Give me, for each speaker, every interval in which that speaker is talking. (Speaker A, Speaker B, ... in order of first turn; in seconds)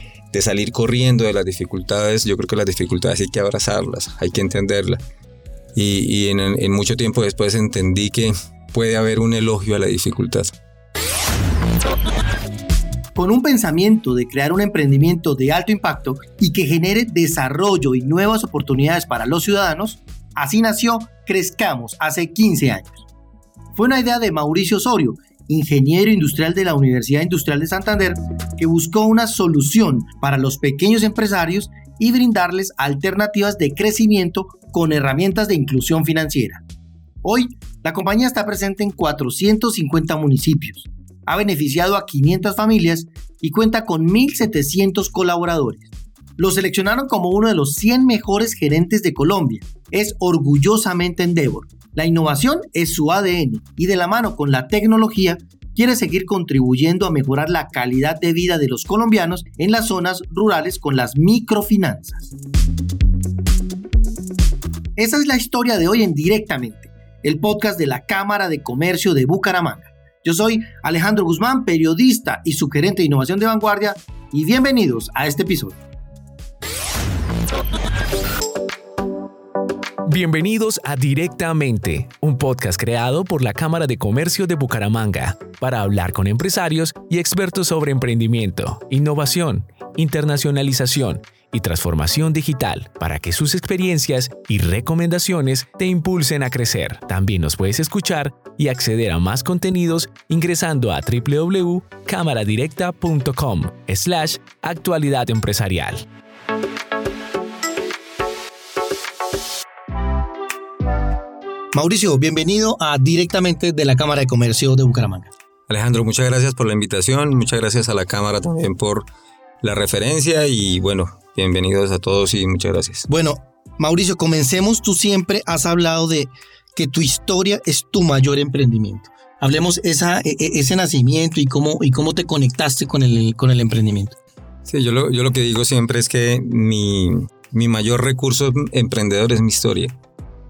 Speaker A: 0.3-5.0, 5.8-10.5, 115.7-119.1, 119.6-123.1, 134.7-139.9
Speaker B: 13.2-23.1, 23.8-36.6, 37.2-62.3, 65.0-75.8, 111.7-115.3, 123.1-134.2
Speaker C: 80.1-106.1